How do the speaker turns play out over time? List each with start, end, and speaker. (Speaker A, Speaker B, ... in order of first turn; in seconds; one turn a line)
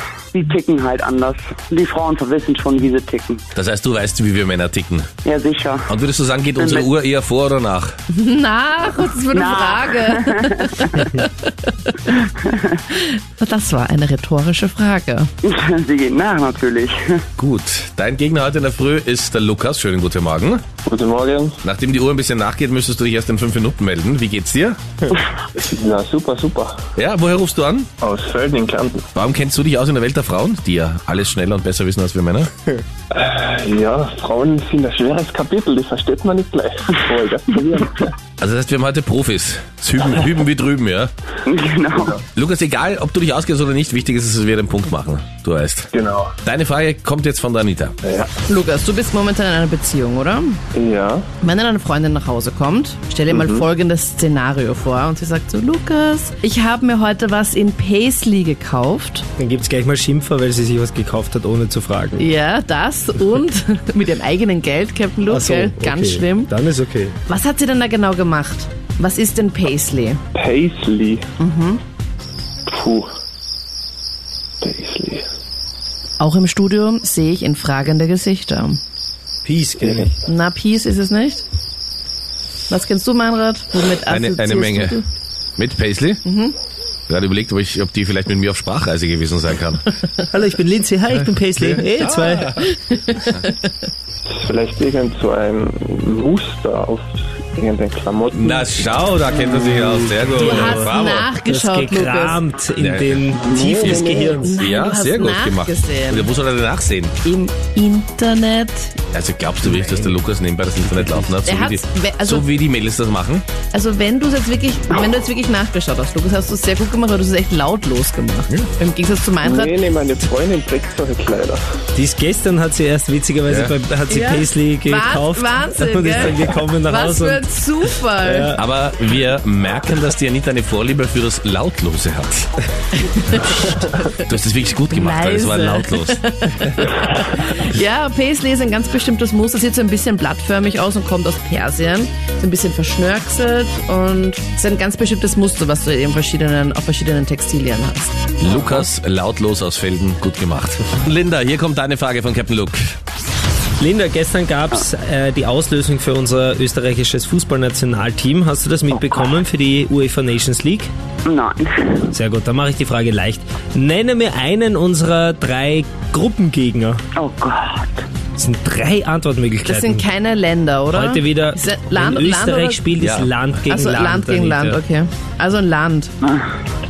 Speaker A: 0.3-3.4
Speaker B: 3.5-5.1
Speaker A: 5.2-5.9
Speaker B: 5.9-8.0
Speaker A: 6.6-6.9
Speaker C: 8.1-12.1
Speaker A: 9.3-11.0
Speaker A: 12.1-12.7
Speaker C: 12.9-15.3
Speaker A: 15.4-17.2
Speaker B: 17.4-20.6
Speaker D: 20.8-21.6
Speaker B: 21.6-24.8
Speaker D: 25.5-26.8
Speaker B: 26.9-27.9
Speaker D: 28.0-29.1
Speaker B: 29.1-32.5
Speaker D: 33.1-38.1
Speaker B: 38.4-41.1
Speaker A: 41.5-42.2
Speaker B: 42.3-45.9
Speaker D: 45.9-46.4
Speaker B: 46.4-48.0
Speaker D: 48.0-48.3
Speaker C: 48.4-50.6
Speaker D: 50.7-51.3
Speaker C: 51.4-59.2
Speaker D: 53.3-53.6
Speaker E: 59.4-62.3
Speaker C: 62.2-66.5
Speaker E: 65.3-67.2
Speaker C: 67.3-70.2
Speaker D: 70.3-71.3
Speaker C: 71.4-71.8
Speaker D: 72.7-73.1
Speaker D: 74.6-75.2
Speaker C: 76.2-78.8
Speaker E: 79.4-80.1
Speaker D: 79.8-80.1
Speaker C: 80.2-81.4
Speaker C: 82.7-85.0
Speaker B: 84.1-85.0
Speaker B: 85.6-86.2
Speaker C: 86.2-86.5
Speaker B: 87.1-89.8
Speaker E: 90.3-92.6
Speaker B: 91.6-92.7
Speaker C: 92.6-93.6
Speaker D: 94.3-98.7
Speaker B: 98.3-101.3
Speaker E: 99.5-104.5
Speaker C: 100.3-102.4
Speaker B: 102.8-107.2
Speaker D: 103.3-104.5
Speaker C: 103.7-106.3
Speaker C: 107.2-109.0
Speaker B: 109.1-113.4
Speaker C: 111.4-112.4
Speaker C: 113.7-119.8
Speaker D: 119.4-121.6
Speaker E: 121.9-127.4
Speaker B: 123.5-123.7
Speaker C: 124.1-128.6
Speaker E: 128.2-128.6
Speaker B: 128.6-132.5
Speaker C: 133.2-134.0
Speaker B: 134.1-136.2
Speaker C: 134.9-148.3
Speaker B: 148.4-153.0
Speaker E: 153.8-160.9
Speaker A: 161.2-162.1
Speaker E: 162.1-167.0
Speaker A: 167.2-168.0
Speaker E: 168.3-170.0
Speaker C: 169.7-172.9
Speaker E: 170.9-174.8
Speaker B: 173.0-173.3
Speaker C: 173.7-176.1